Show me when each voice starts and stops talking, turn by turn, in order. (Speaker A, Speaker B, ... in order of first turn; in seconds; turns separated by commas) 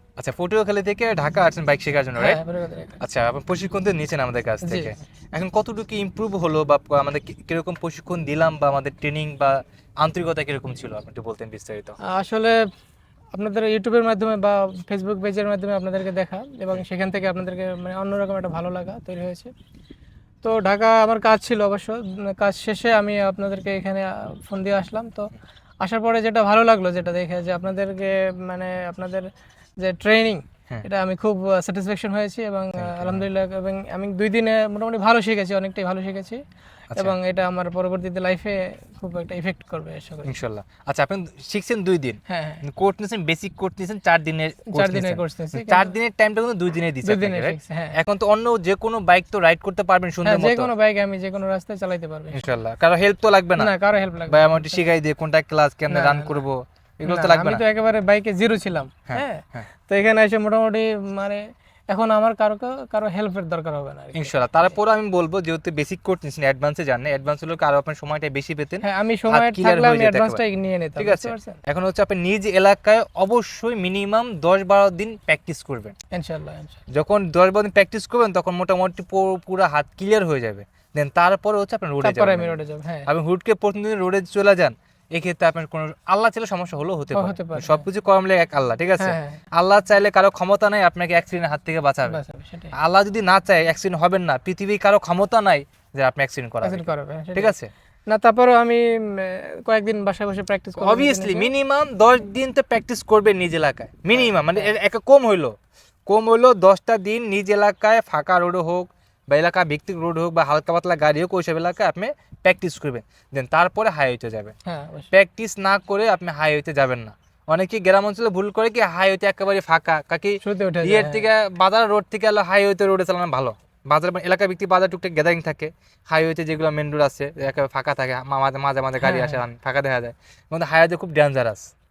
Speaker A: 0.2-2.4, Speaker B: 2.2-3.0, Speaker A: 3.0-12.0, Speaker B: 4.6-5.0, Speaker B: 12.0-12.6, Speaker B: 13.3-19.5, Speaker B: 20.4-29.3, Speaker B: 29.8-36.4, Speaker A: 32.8-33.2, Speaker B: 36.9-40.4, Speaker A: 40.2-50.7, Speaker B: 42.3-42.6, Speaker B: 44.7-45.9, Speaker B: 47.0-48.0, Speaker B: 50.2-52.5, Speaker A: 52.3-53.7, Speaker B: 53.6-54.9, Speaker A: 54.3-57.6, Speaker B: 55.9-56.4, Speaker B: 57.0-64.7, Speaker A: 59.1-59.7, Speaker A: 64.2-70.4, Speaker B: 68.8-71.6, Speaker A: 71.0-76.0, Speaker B: 76.1-76.8, Speaker A: 76.9-92.2, Speaker B: 82.0-83.1, Speaker B: 87.1-87.8, Speaker B: 89.0-89.4, Speaker B: 92.1-92.7, Speaker A: 92.7-97.7, Speaker B: 96.6-97.5, Speaker B: 98.1-101.5, Speaker A: 100.8-105.5, Speaker B: 104.1-104.7, Speaker A: 106.1-114.5, Speaker B: 114.7-115.1, Speaker A: 115.1-131.7, Speaker B: 120.4-121.2, Speaker B: 129.0-129.4